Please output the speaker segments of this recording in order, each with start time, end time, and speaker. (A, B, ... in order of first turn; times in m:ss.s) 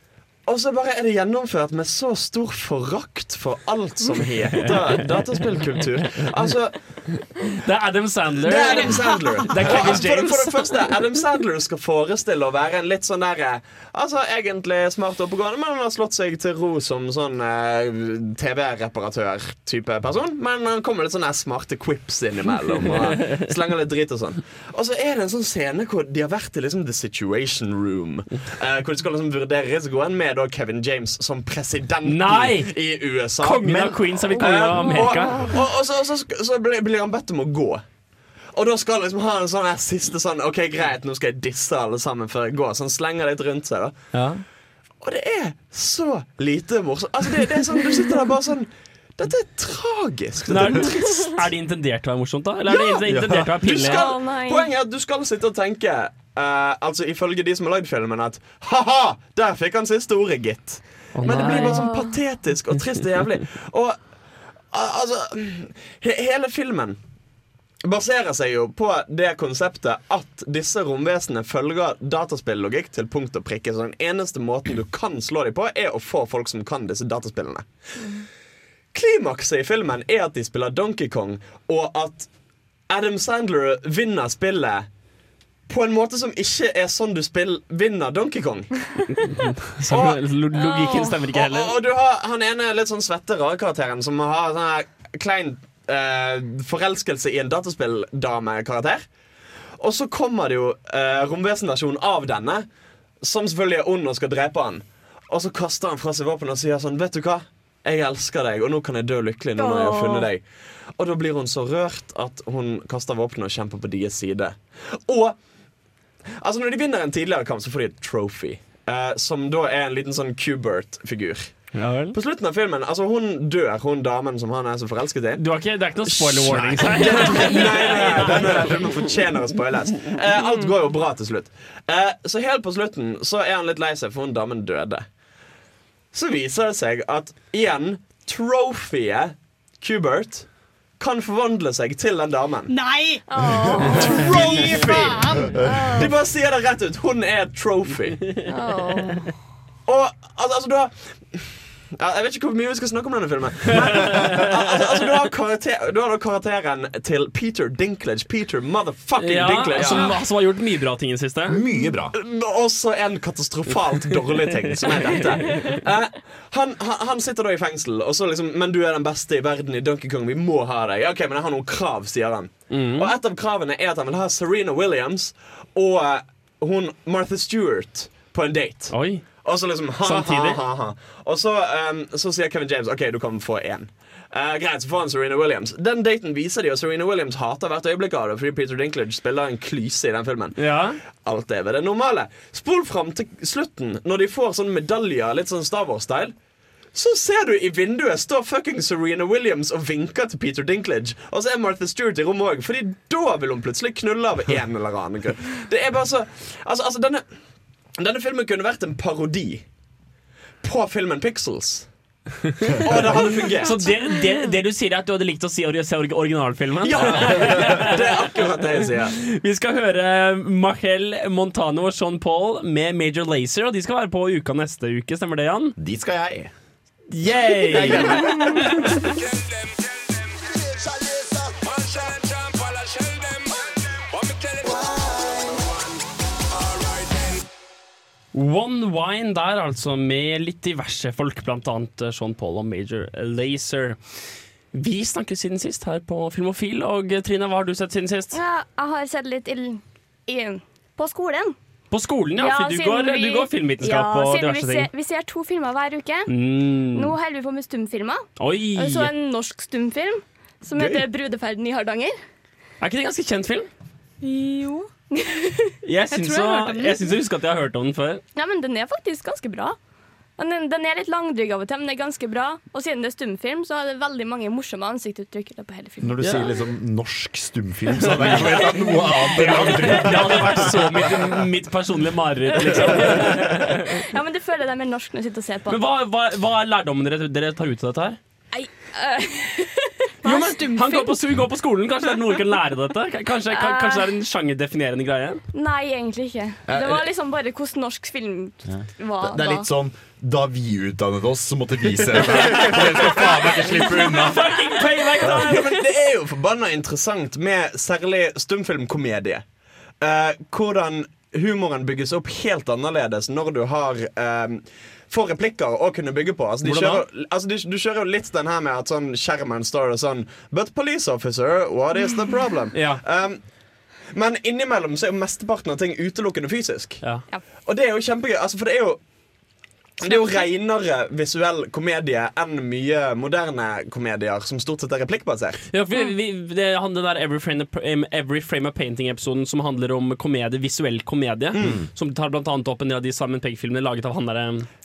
0:00.5-0:07.1 A
0:07.6-0:10.8 B
0:08.4-0:37.9 A
0:23.0-0:23.3 B
0:32.0-0:32.8 B
0:33.4-0:35.5 B
0:33.6-0:34.1 C
0:34.8-0:35.5 D
0:38.5-0:44.3 A
0:44.1-0:44.4 B
0:45.0-0:50.9 A
0:50.5-0:54.0 B
0:52.7-1:04.1 A
0:53.1-0:53.5 C
0:53.8-0:54.7 D
1:01.1-1:01.8 B
1:01.3-1:02.2 D
1:04.7-1:07.0 A
1:07.8-1:18.1 A
1:18.9-1:22.3 A
1:22.9-1:24.9 A
1:25.7-1:29.0 A
1:29.4-1:31.7 B
1:29.8-1:30.2 A
1:30.6-1:31.2 D
1:31.3-1:39.1 A
1:39.8-1:42.7 A
1:43.2-1:55.4 A
1:49.6-1:50.3 D
1:56.4-2:15.1 A
2:01.9-2:02.1 B
2:05.4-2:08.8 B
2:08.3-2:08.6 C
2:16.1-2:22.7 A
2:22.7-2:23.2 E
2:23.3-2:26.1 D
2:23.9-2:28.4 A
2:23.9-2:25.4 E
2:25.5-2:26.0 C
2:28.4-2:29.2 B
2:28.5-2:29.3 D
2:29.9-2:40.2 A
2:34.0-2:34.4 B
2:39.2-2:41.6 B
2:41.5-2:42.1 C
2:42.1-3:16.4 A
2:52.7-2:53.1 B
2:58.9-2:59.5 B
3:00.0-3:00.6 B
3:10.6-3:11.0 B
3:16.9-3:27.4 A
3:28.0-3:29.7 A
3:30.6-3:31.9 A
3:32.8-3:33.8 A
3:33.6-3:45.8 B
3:33.7-3:34.4 D
3:36.8-3:39.2 A
3:45.8-3:46.5 C
3:47.1-3:48.9 B
3:47.7-3:48.7 C
3:47.7-3:48.3 A
3:58.3-4:08.4 B
4:08.3-4:11.6 D
4:11.9-4:14.9 B
4:12.4-4:16.3 D
4:16.3-4:17.2 B
4:16.9-4:22.2 D
4:18.4-4:19.1 B
4:20.8-4:21.0 B
4:22.8-4:23.7 B
4:24.2-4:24.9 E
4:25.2-4:25.8 D
4:25.8-4:28.2 B
4:26.1-4:27.0 E
4:28.4-4:29.8 D
4:30.4-4:36.5 D
4:36.0-4:41.1 C
4:38.1-4:43.8 B
4:42.8-4:43.2 D
4:44.0-4:45.8 D
4:45.7-4:48.2 B
4:48.5-4:51.1 D
4:50.2-4:55.4 B
4:53.5-4:54.1 D
4:55.5-4:59.7 D
4:56.7-4:57.1 C
4:58.6-5:04.5 C
5:02.4-5:02.8 B
5:04.0-5:05.7 B
5:05.2-5:09.4 A
5:10.0-5:23.5 A
5:16.6-5:17.0 B
5:22.7-5:23.0 B
5:24.1-5:29.0 A
5:27.0-5:27.3 B
5:30.0-5:35.6 A
5:30.1-5:30.4 D
5:35.7-5:44.7 B
5:41.5-5:41.8 A
5:41.6-5:41.9 C